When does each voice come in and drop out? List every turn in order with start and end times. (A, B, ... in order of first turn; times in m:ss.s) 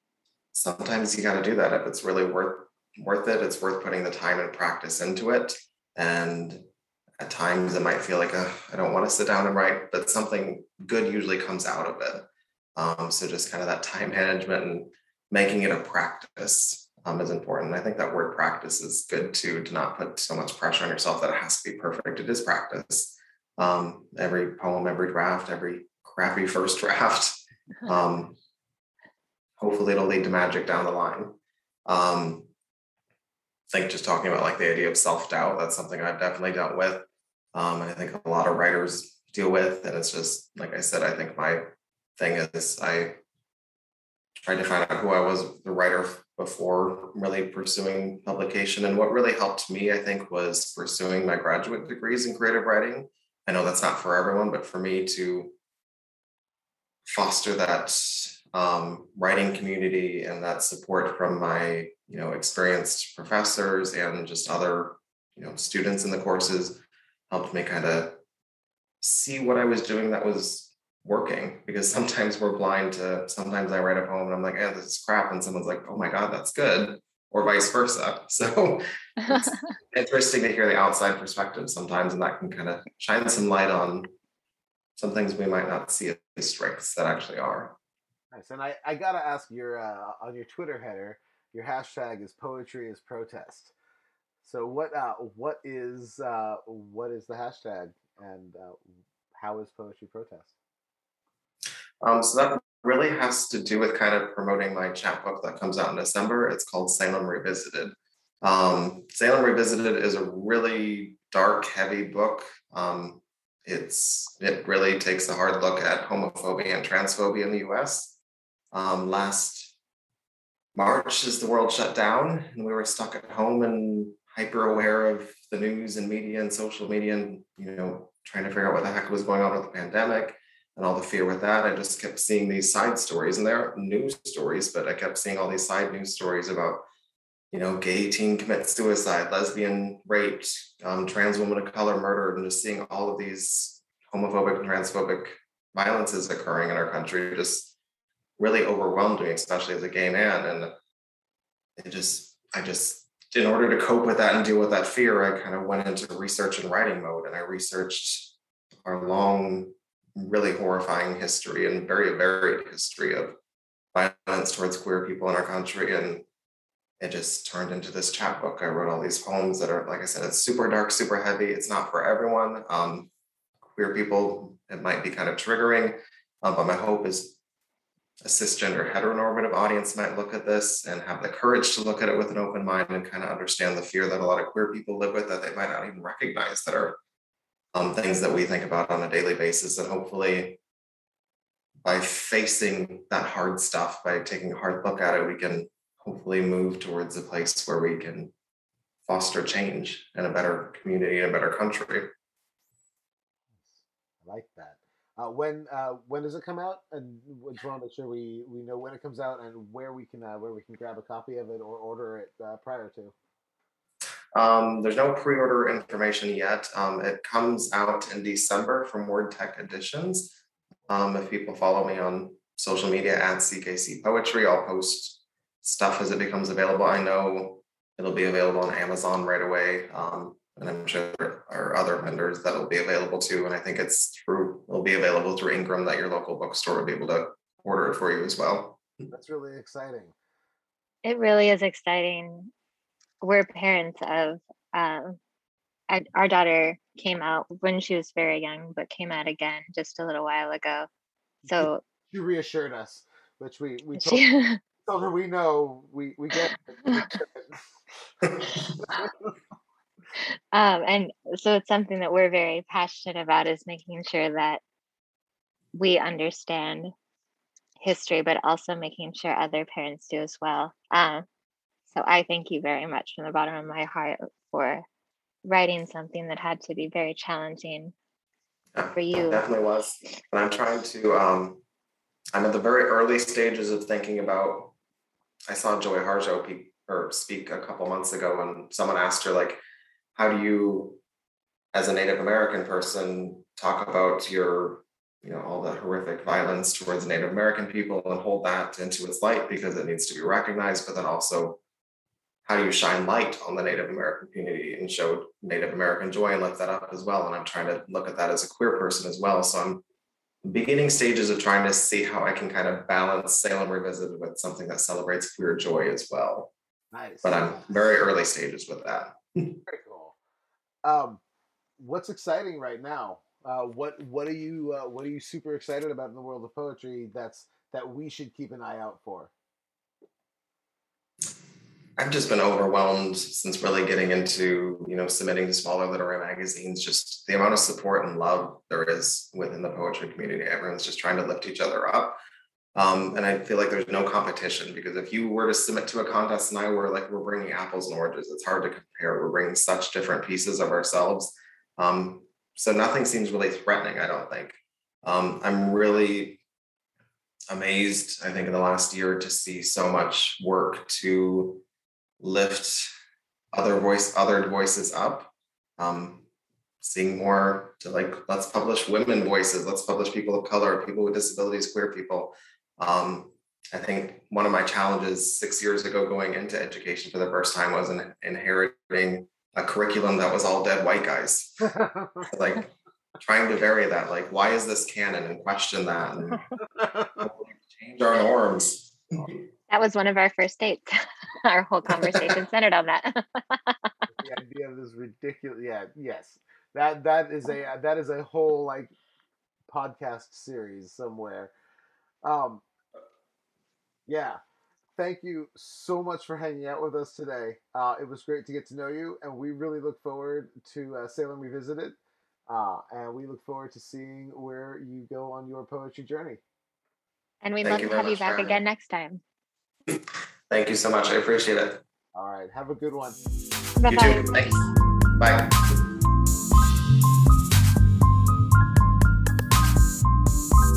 0:00.5-0:06.6 A
0:07.2-0:28.4 A
0:29.6-0:32.5 A
0:33.7-0:41.6 A
0:42.2-0:43.2 A
0:44.4-0:55.5 A
0:57.1-1:08.2 A
1:09.0-1:24.1 A
1:19.2-1:19.7 B
1:25.0-1:27.8 A
1:28.3-1:33.7 C
1:34.4-1:40.5 C
1:42.0-1:58.2 A
1:58.7-1:59.7 A
2:00.8-2:16.8 A
2:17.5-2:27.7 A
2:28.4-2:30.7 A
2:31.8-2:43.4 A
2:43.9-2:46.2 A
2:47.0-2:53.1 A
2:53.7-2:57.4 A
2:58.2-3:07.0 A
3:07.7-3:10.6 A
3:11.8-3:18.3 A
3:19.1-3:22.1 A
3:23.6-3:33.1 C
3:34.4-3:40.3 A
3:40.9-3:58.8 A
3:59.1-4:00.1 C
4:01.0-4:02.5 B
4:03.2-4:05.2 B
4:05.9-4:10.9 B
4:11.5-4:11.8 B
4:11.5-4:14.3 C
4:13.9-4:14.6 B
4:14.8-4:18.3 C
4:16.4-4:17.2 B
4:20.2-4:24.6 B
4:25.7-4:26.9 B
4:27.8-4:31.2 B
4:31.9-4:34.8 B
4:35.4-4:37.9 B
4:38.7-4:41.6 A
4:38.9-4:39.6 B
4:42.3-4:44.7 A
4:45.5-4:49.6 A
4:50.2-4:51.0 A
4:51.7-5:01.6 A
5:02.4-5:09.8 A
5:10.4-5:16.5 A
5:16.9-5:17.9 C
5:17.2-5:19.6 A
5:19.6-5:20.2 C
5:20.8-5:21.2 C
5:21.8-5:29.3 C
5:32.0-5:42.2 A
5:42.7-5:56.4 A
5:57.5-6:01.6 A
6:02.2-6:02.9 A
6:03.5-6:06.2 A
6:06.8-6:26.4 A
6:21.8-6:22.1 C
6:26.8-6:27.1 C
6:27.2-6:29.3 A
6:29.7-6:30.9 B
6:31.4-6:34.1 B
6:34.2-6:38.9 C
6:39.7-6:41.5 C
6:42.2-6:42.6 C
6:44.1-6:44.4 C
6:45.0-6:52.0 C
6:52.5-6:56.4 C
6:57.4-6:59.2 B
6:57.6-6:58.6 A
7:00.5-7:01.8 A
7:02.1-7:03.2 C
7:03.8-7:04.7 B
7:03.9-7:04.6 A
7:05.2-7:05.5 A